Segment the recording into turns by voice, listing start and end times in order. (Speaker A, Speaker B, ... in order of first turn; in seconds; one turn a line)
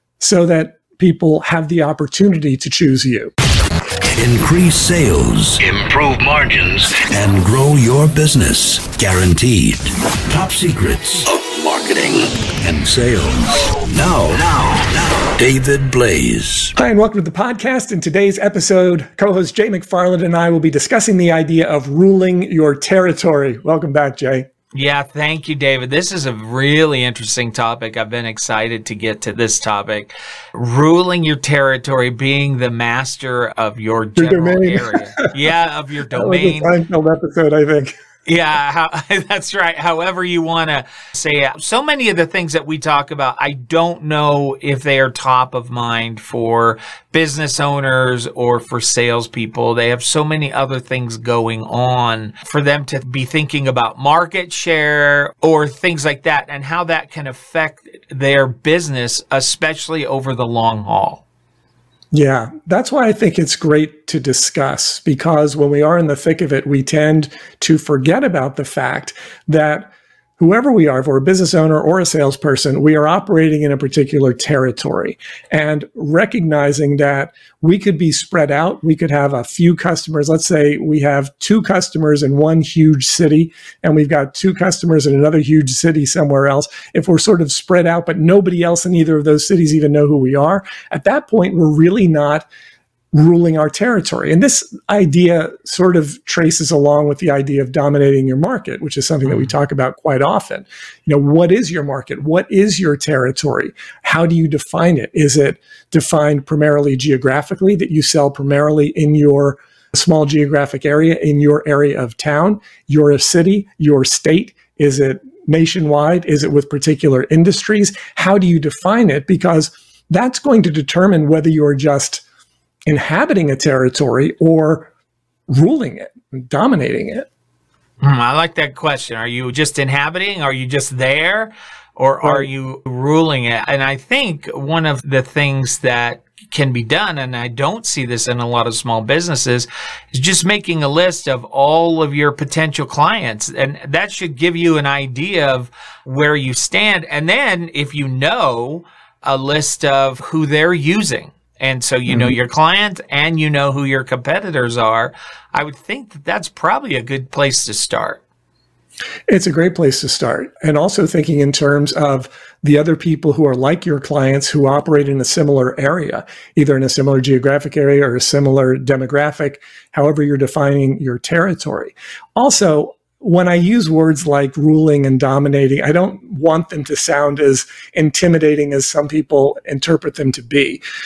Speaker A: 0.2-3.3
Speaker B: 4.0-16.7
Speaker A: 16.8-24.5
Speaker C: 24.7-36.7
Speaker A: 34.2-35.3
Speaker A: 36.1-38.0
Speaker C: 38.2-61.2
Speaker A: 62.1-92.5
Speaker A: 93.1-122.2
Speaker A: 122.8-124.9
Speaker A: 125.5-127.3
Speaker C: 128.0-158.2
Speaker A: 132.2-132.5
Speaker A: 152.1-152.3
Speaker A: 159.3-180.8